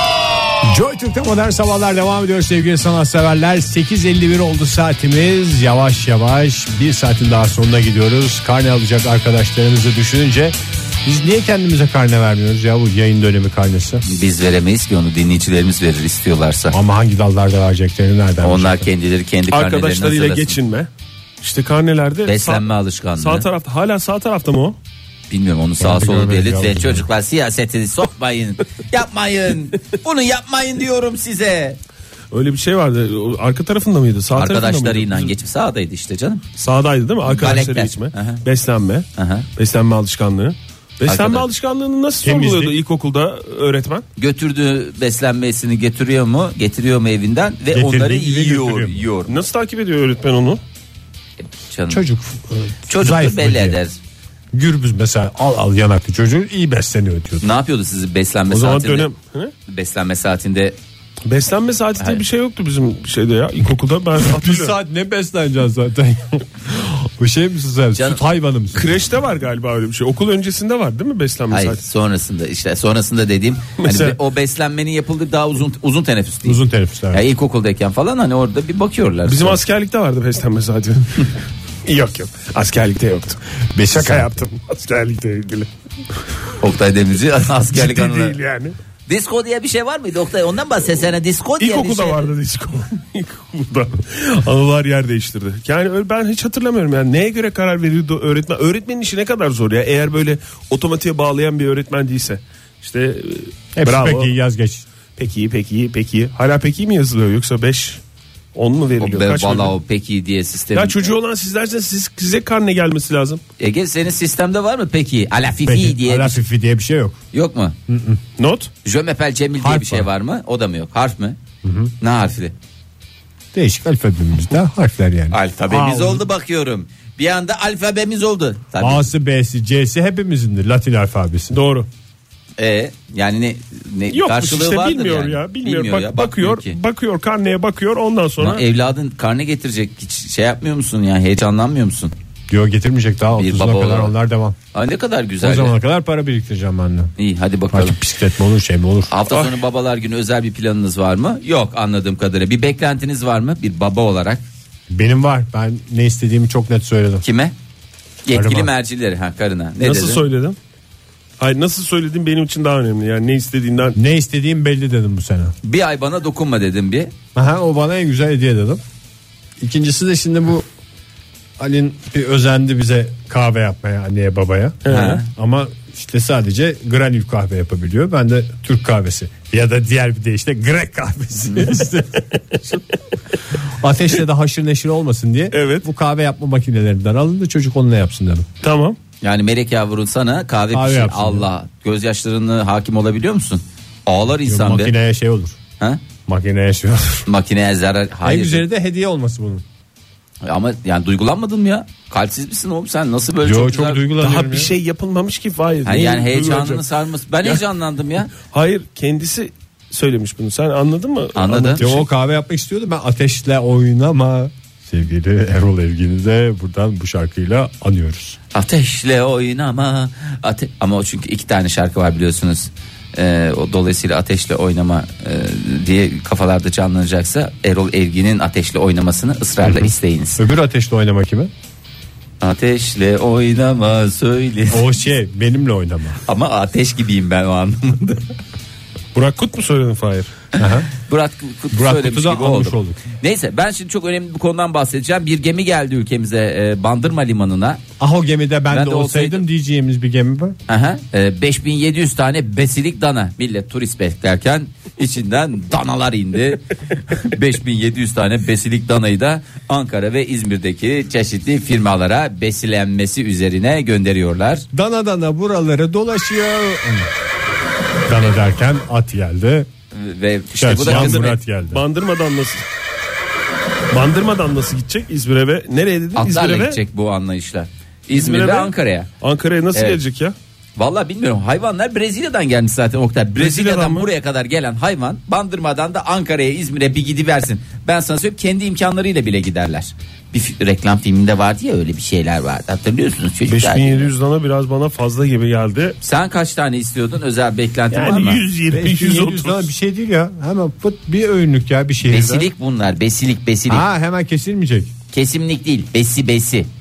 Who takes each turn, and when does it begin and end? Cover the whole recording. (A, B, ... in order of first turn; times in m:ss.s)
0:00.6-0:14.0 A
0:14.0-0:16.8 B
0:16.7-0:18.9 A
0:18.4-0:20.6 B
0:19.5-0:20.9 C
0:21.4-0:22.6 C
0:22.2-0:23.5 B
0:23.2-0:24.8 C
0:25.3-0:31.8 B
0:25.8-0:27.1 A
0:32.3-0:35.3 C
0:34.3-0:36.4 B
0:36.6-0:44.0 C
0:37.2-0:38.4 B
0:39.2-0:39.5 B
0:41.0-0:41.5 B
0:42.2-0:42.8 A
0:44.2-0:49.4 B
0:47.7-0:49.0 A
0:49.3-0:50.6 C
0:51.4-0:52.0 B
0:51.9-0:53.8 A
0:52.9-0:54.0 B
0:54.5-0:57.5 A
0:57.4-0:59.1 B
0:58.5-0:59.5 C
0:59.7-1:00.8 B
1:01.3-1:04.8 C
1:04.2-1:08.9 A
1:07.9-1:08.2 B
1:08.7-1:11.8 C
1:11.5-1:19.6 B
1:13.8-1:14.2 C
1:16.4-1:17.2 A
1:19.2-1:21.3 C
1:21.8-1:25.7 C
1:23.7-1:24.4 A
1:26.6-1:28.4 B
1:27.7-1:28.7 C
1:29.1-1:32.3 B
1:31.6-1:44.3 C
1:43.7-1:44.8 A
1:45.2-1:48.0 C
1:48.5-1:49.7 C
1:49.0-1:51.1 B
1:50.7-1:53.4 C
1:53.6-1:56.4 B
1:55.6-1:57.2 A
1:57.3-1:57.8 B
1:57.9-1:58.2 A
1:58.4-1:58.7 C
1:58.8-2:01.4 B
1:59.6-2:00.1 A
2:01.6-2:01.9 A
2:02.0-2:02.5 B
2:03.5-2:06.2 A
2:05.3-2:09.1 B
2:08.8-2:11.6 A
2:11.5-2:11.9 C
2:12.6-2:16.8 B
2:14.1-2:18.6 C
2:18.4-2:22.1 B
2:22.5-2:24.6 A
2:23.4-2:24.1 B
2:24.7-2:25.8 B
2:25.4-2:27.1 A
2:27.2-2:28.0 B
2:27.7-2:29.1 A
2:29.1-2:34.4 B
2:29.3-2:29.6 C
2:34.9-2:37.2 A
2:37.2-2:37.5 B
2:38.2-2:40.2 B
2:38.3-2:38.7 A
2:39.8-2:40.6 C
2:41.4-2:44.0 C
2:44.0-2:45.5 A
2:45.6-2:47.1 B
2:47.3-2:48.8 A
2:49.6-2:50.6 A
2:51.6-3:02.8 A
2:54.8-2:55.2 C
2:54.9-2:55.2 B
3:03.6-3:08.5 A
3:05.5-3:05.8 C
3:08.6-3:09.0 C
3:09.2-3:14.9 B
3:10.7-3:11.5 A
3:14.4-3:15.6 A
3:16.2-3:17.2 A
3:17.3-3:18.6 B
3:18.2-3:19.6 A
3:20.4-3:24.0 B
3:23.4-3:24.7 A
3:24.2-3:26.8 C
3:25.8-3:28.3 B
3:28.5-3:32.0 C
3:31.3-3:31.8 B
3:31.8-3:38.4 A
3:38.5-3:50.4 B
3:49.6-3:51.5 A
3:52.4-3:54.9 B
3:54.7-3:56.2 A
3:56.2-3:58.2 B
3:59.1-4:00.3 C
4:00.5-4:00.9 A
4:00.9-4:07.8 B
4:01.7-4:03.0 A
4:08.0-4:10.6 A
4:08.7-4:09.4 B
4:10.7-4:24.6 B
4:24.7-4:27.1 A
4:28.1-4:29.7 A
4:29.9-4:31.4 B
4:30.6-4:31.8 A
4:30.8-4:32.6 C
4:33.9-4:36.8 C
4:36.1-4:39.1 B
4:38.1-4:40.3 C
4:40.8-4:54.1 B
4:43.4-4:44.1 C
4:53.5-4:56.0 C
4:56.0-4:58.4 B
4:57.9-4:59.7 C
4:58.7-5:02.5 A
5:02.0-5:03.8 B
5:03.7-5:04.9 A
5:05.1-5:06.7 B